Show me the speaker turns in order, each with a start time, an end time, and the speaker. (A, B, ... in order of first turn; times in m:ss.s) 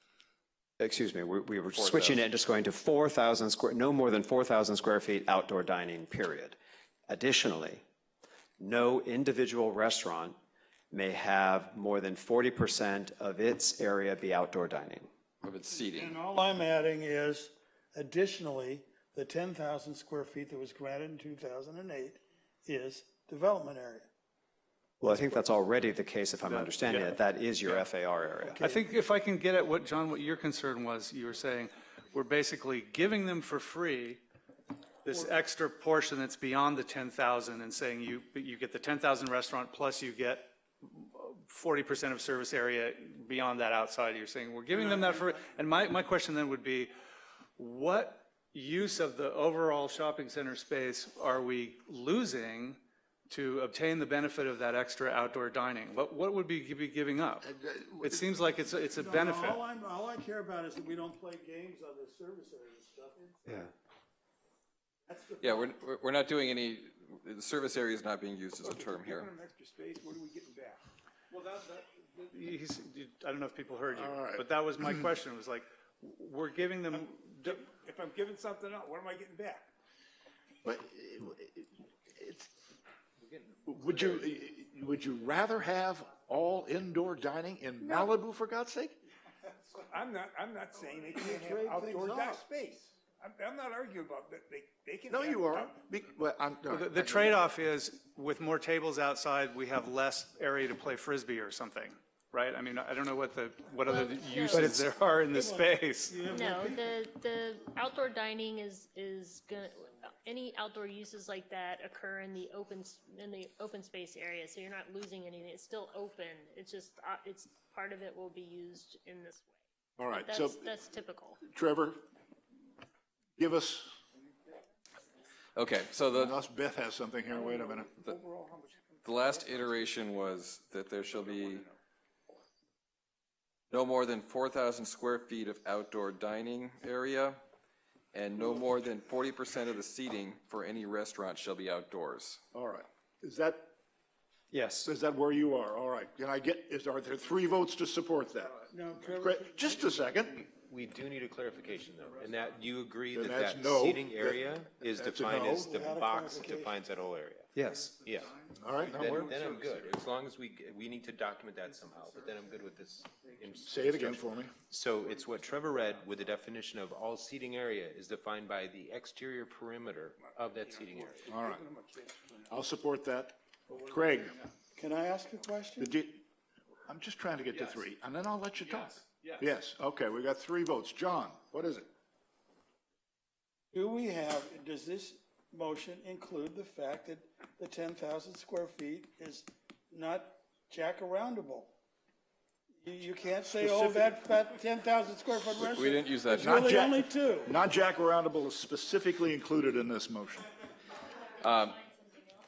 0:00.8-0:06.6 A
0:01.7-0:02.3 B
0:07.1-0:07.8 A
0:08.6-0:10.4 A
0:10.9-0:15.1 A
0:15.4-0:16.1 B
0:15.8-0:24.1 C
0:25.0-0:28.6 A
0:26.4-0:27.8 D
0:28.4-0:29.0 C
0:28.6-0:34.2 D
0:35.0-0:46.9 D
0:44.9-0:45.4 C
0:47.6-0:59.6 D
0:57.5-0:58.3 E
0:59.0-1:03.6 C
1:05.1-1:05.7 C
1:05.4-1:09.3 B
1:08.6-1:10.8 F
1:11.3-1:17.6 D
1:13.9-1:15.0 E
1:16.9-1:19.7 F
1:20.6-1:22.5 E
1:23.6-1:29.0 E
1:24.0-1:24.2 F
1:27.8-1:28.1 F
1:29.6-1:35.8 F
1:31.0-1:32.5 C
1:35.1-1:37.5 E
1:36.7-1:46.2 D
1:43.8-1:44.9 G
1:45.3-1:46.9 C
1:46.3-1:59.5 G
2:00.0-2:00.7 E
2:00.1-2:01.4 G
2:01.4-2:02.0 E
2:03.4-2:04.0 E
2:05.6-2:06.3 B
2:06.1-2:07.9 E
2:07.2-2:10.3 F
2:09.0-2:11.7 B
2:11.0-2:11.8 F
2:13.7-2:17.4 B
2:18.1-2:22.4 B
2:22.5-2:23.7 E
2:24.5-2:24.9 A
2:24.8-2:30.3 E
2:28.7-2:30.1 C
2:30.3-2:38.3 H
2:33.1-2:35.8 E
2:35.5-2:36.8 C
2:37.5-2:37.9 A
2:37.6-2:38.6 D
2:38.6-2:39.3 E
2:38.8-2:40.0 F
2:38.8-2:51.2 H
2:43.6-2:44.5 E
2:50.2-2:52.6 F
2:51.2-2:51.7 E
2:52.5-2:54.4 E
2:54.7-2:55.9 C
2:55.8-2:56.2 E
2:56.9-3:01.9 E
2:58.8-2:59.4 D
3:03.7-3:11.7 C
3:12.8-3:17.5 C
3:13.5-3:14.1 E
3:15.7-3:16.6 B
3:16.3-3:20.5 E
3:21.4-3:21.8 B